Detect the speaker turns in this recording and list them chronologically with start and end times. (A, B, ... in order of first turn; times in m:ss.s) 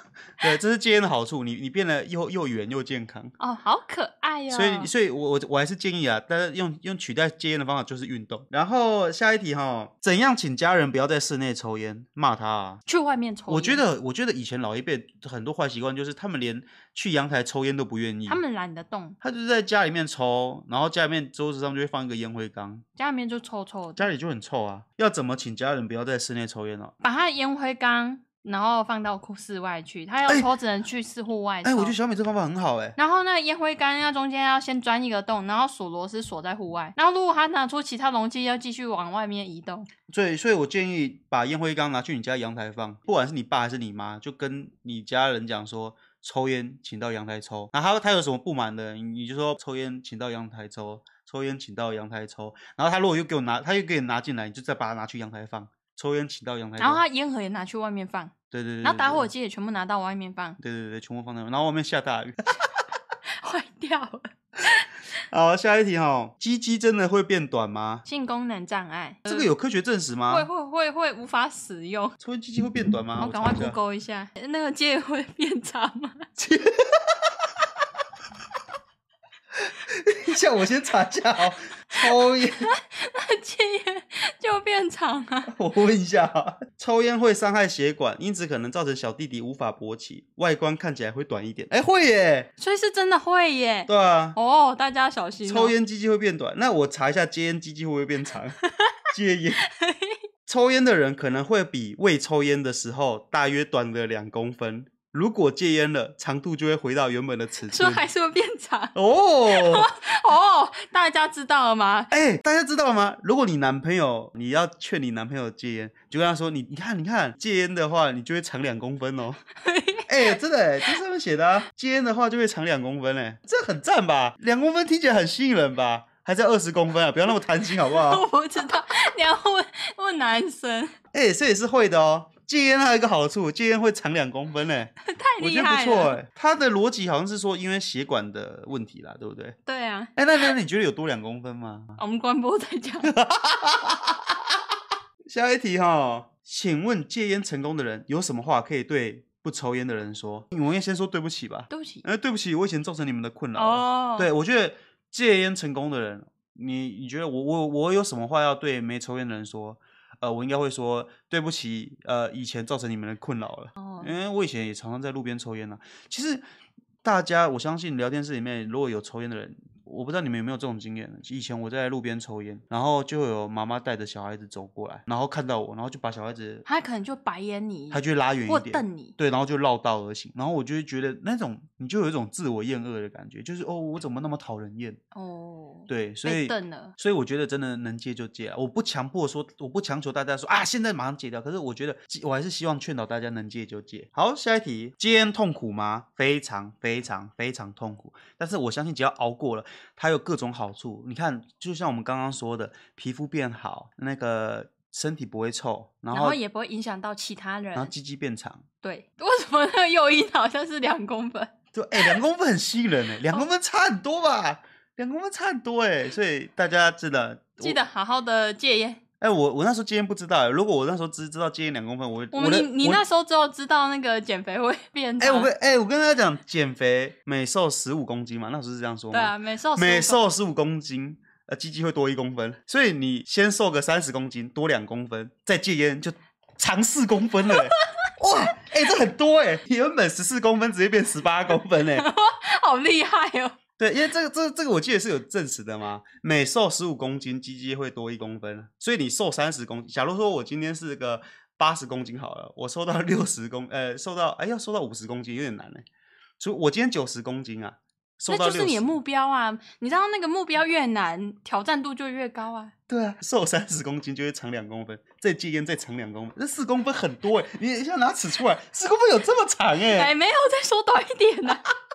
0:00.4-0:03.3 A
0:03.4-0:04.9 B
0:04.5-0:12.8 A
0:12.8-0:13.8 B
0:13.5-0:18.4 A
0:18.2-0:19.2 B
0:19.2-0:22.8 A
0:23.0-0:24.0 B
0:24.0-0:26.9 A
0:27.0-0:31.9 B
0:31.6-0:33.0 A
0:33.0-0:39.9 B
0:40.1-0:57.0 A
0:56.8-1:00.6 B
0:58.5-0:59.3 A
1:00.6-1:02.4 A
1:03.3-1:04.9 B
1:05.3-1:08.0 A
1:08.0-1:09.5 B
1:09.2-1:10.5 A
1:10.3-1:12.1 B
1:12.2-1:13.8 A
1:13.2-1:16.3 B
1:16.4-1:17.3 A
1:19.6-1:22.7 A
1:22.6-1:25.5 B
1:25.5-1:32.5 A
1:32.6-1:35.7 B
1:33.9-1:34.4 A
1:35.4-1:38.6 A
1:38.6-1:38.9 B
1:39.1-1:39.6 A
1:39.7-1:40.2 B
1:40.4-1:48.0 A
1:47.7-1:48.9 B
1:48.9-1:49.9 A
1:49.5-1:52.1 B
1:52.1-1:59.4 A
1:59.6-2:00.3 B
2:00.1-2:08.2 A
2:07.8-2:10.9 B
2:11.1-2:19.6 A
2:15.0-2:16.2 B
2:19.6-2:20.5 B
2:20.2-2:22.0 A
2:22.0-2:23.1 B
2:23.0-2:24.4 A
2:25.2-2:46.4 A
2:31.7-2:32.0 B
2:33.5-2:34.3 B
2:43.8-2:44.1 B
2:47.0-2:56.6 A
2:56.6-2:59.1 B
2:57.9-3:05.0 A
3:05.1-3:06.9 B
3:05.9-3:26.4 A
3:26.1-3:27.9 B
3:27.7-3:28.6 A
3:28.8-3:32.2 B
3:31.7-3:37.8 A
3:37.6-3:39.0 B
3:39.2-3:43.0 A
3:42.3-3:45.5 B
3:45.2-4:02.1 A
3:49.1-3:50.2 B
4:01.9-4:03.6 B
4:03.8-4:15.8 A
4:16.4-4:18.9 A
4:18.3-4:22.7 B
4:22.9-4:30.1 A
4:29.9-4:31.6 B